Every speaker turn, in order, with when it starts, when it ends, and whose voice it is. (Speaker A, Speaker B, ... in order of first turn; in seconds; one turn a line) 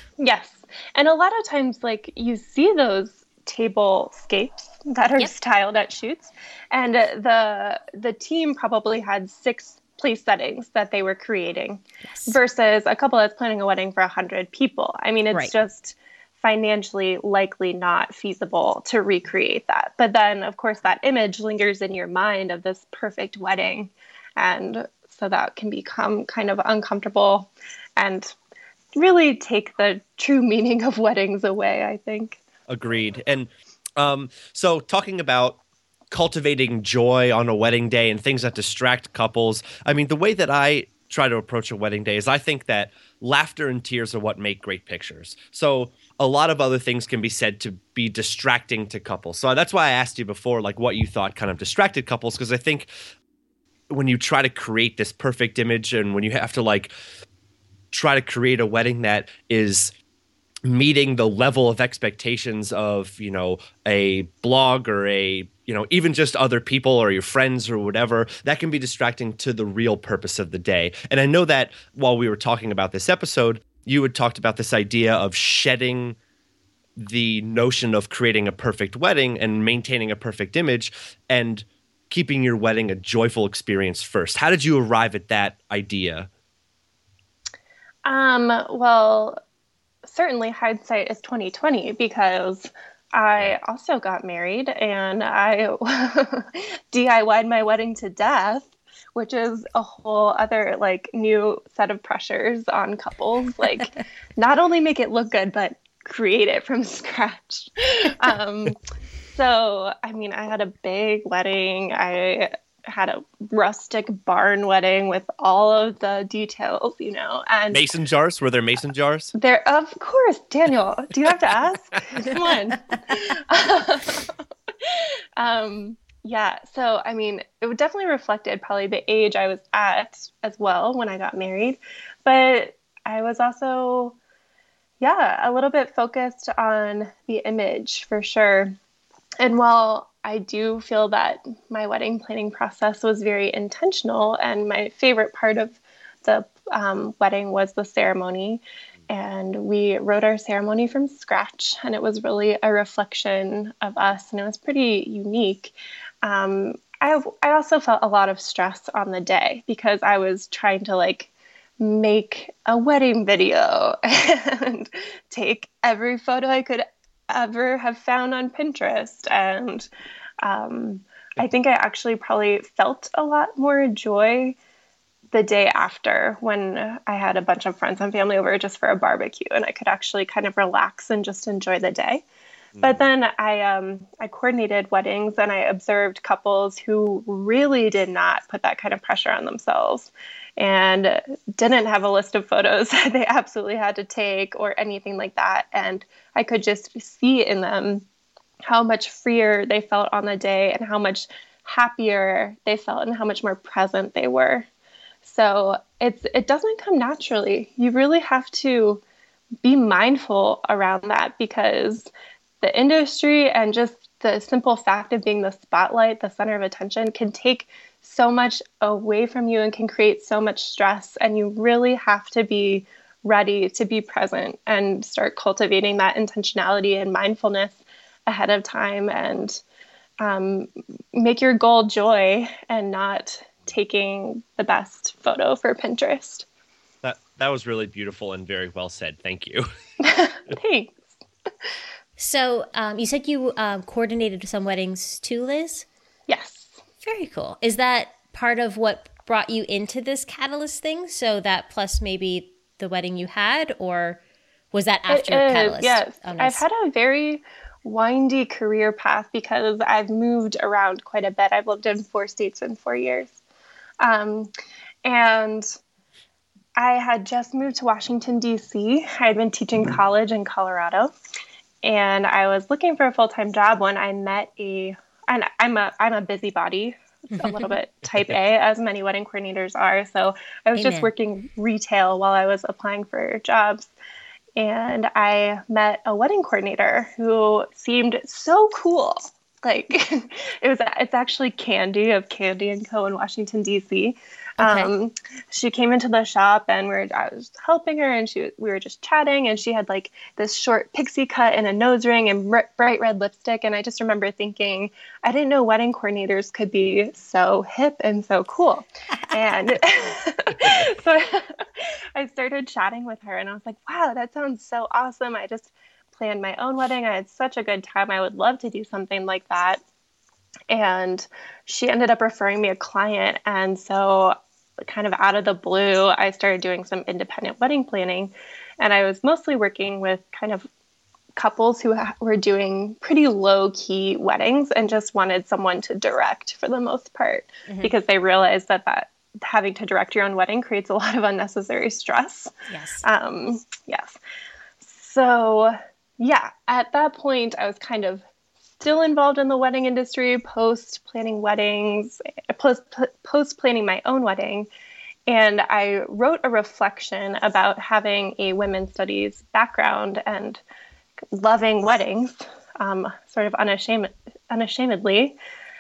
Speaker A: 0.2-28.3
Speaker B: 12.1-12.4
Speaker A: 28.9-32.4
Speaker C: 32.7-35.6
Speaker C: 36.1-52.9
Speaker C: 53.9-56.9
Speaker C: 57.9-59.9
Speaker C: 60.6-76.2
Speaker C: 77.0-86.3
Speaker A: 88.0-89.4
Speaker A: 90.0-108.8
Speaker A: 109.3-117.8
Speaker C: 117.7-119.3
Speaker A: 119.3-134.2
Speaker A: 135.0-138.8
Speaker A: 139.4-161.3
Speaker A: 161.8-169.9
Speaker A: 170.4-174.6
Speaker A: 175.3-182.2
Speaker C: 182.8-183.0
Speaker A: 182.8-198.1
Speaker A: 198.7-204.7
Speaker A: 205.2-209.0
Speaker A: 209.6-212.1
Speaker A: 212.6-229.6
Speaker A: 230.2-236.4
Speaker C: 237.0-239.7
Speaker A: 240.0-241.1
Speaker B: 242.2-245.9
Speaker A: 246.3-246.7
Speaker B: 247.0-254.2
Speaker B: 254.7-256.6
Speaker A: 255.1-263.3
Speaker A: 264.0-264.5
Speaker A: 265.1-265.7
Speaker A: 266.8-271.1
Speaker A: 271.8-283.9
Speaker B: 277.3-277.7
Speaker B: 280.8-281.1
Speaker A: 284.6-319.8
Speaker B: 294.6-294.9
Speaker A: 320.7-330.7
Speaker A: 331.4-342.5
Speaker B: 337.7-337.9
Speaker B: 342.7-343.0
Speaker A: 343.0-344.2
Speaker A: 344.8-348.2
Speaker A: 348.8-354.7
Speaker A: 355.3-360.6
Speaker A: 361.3-365.4